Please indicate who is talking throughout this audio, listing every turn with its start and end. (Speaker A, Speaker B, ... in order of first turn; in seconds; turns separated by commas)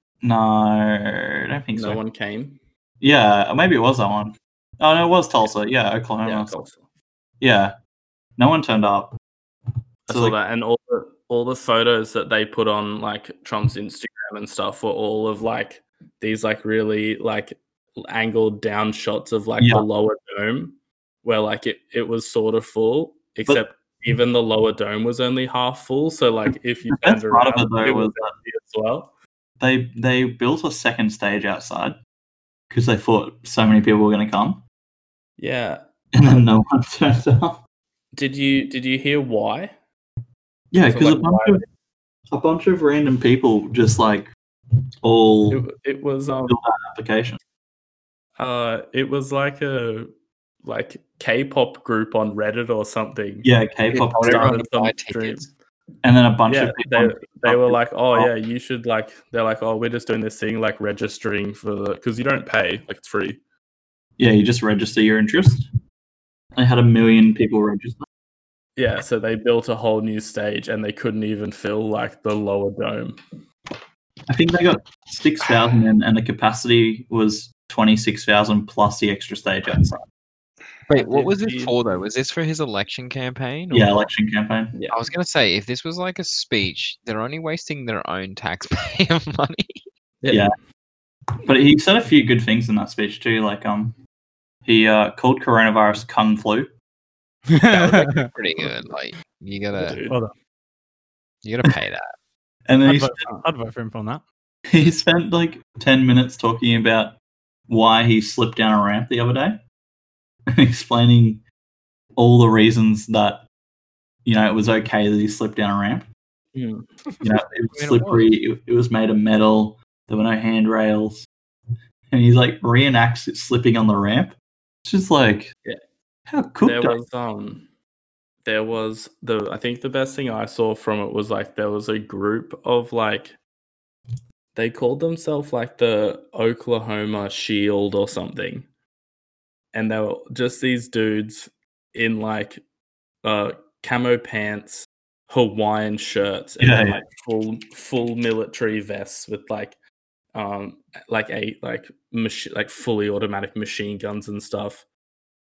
Speaker A: 0.2-2.0, Speaker B: 1.7-2.6, Speaker A: 3.0-6.5, Speaker B: 6.2-6.8, Speaker A: 7.4-7.7, Speaker A: 8.4-9.2, Speaker B: 10.1-29.1, Speaker A: 10.1-10.4, Speaker A: 19.6-19.9, Speaker A: 26.9-28.3, Speaker A: 29.6-32.0, Speaker A: 32.7-34.6, Speaker B: 35.4-35.8, Speaker A: 36.1-37.6, Speaker B: 38.1-39.7, Speaker A: 40.7-41.6, Speaker B: 40.9-41.6, Speaker A: 42.3-44.3, Speaker A: 45.0-45.6, Speaker B: 45.5-46.6, Speaker A: 46.5-47.4, Speaker B: 48.4-50.1, Speaker B: 50.6-53.5, Speaker A: 53.4-54.6, Speaker C: 53.9-55.5, Speaker B: 54.1-55.5, Speaker A: 56.0-58.3, Speaker B: 56.5-63.4, Speaker A: 64.2-65.7, Speaker A: 66.5-68.0, Speaker B: 68.8-73.2, Speaker A: 74.3-80.0, Speaker C: 80.9-84.1, Speaker B: 80.9-81.8, Speaker A: 83.7-84.7, Speaker B: 84.7-85.0, Speaker C: 84.9-89.8, Speaker B: 90.2-90.5, Speaker A: 90.3-90.5, Speaker A: 91.4-94.0, Speaker A: 94.6-96.7, Speaker D: 97.5-98.3, Speaker C: 97.7-100.0, Speaker B: 99.7-100.2, Speaker D: 100.0-100.3, Speaker C: 101.4-102.1, Speaker A: 102.7-103.2, Speaker D: 102.8-104.2, Speaker A: 104.7-107.2, Speaker A: 107.7-109.6, Speaker A: 110.5-111.4, Speaker A: 112.2-113.5, Speaker A: 114.2-116.1, Speaker B: 116.5-117.0, Speaker A: 117.2-121.3, Speaker C: 117.7-118.3, Speaker A: 122.1-125.5, Speaker A: 126.3-127.0, Speaker B: 126.6-127.7, Speaker B: 128.4-133.4, Speaker B: 134.5-138.7, Speaker B: 139.7-142.6, Speaker B: 143.2-149.8, Speaker A: 146.6-147.0, Speaker B: 150.3-154.8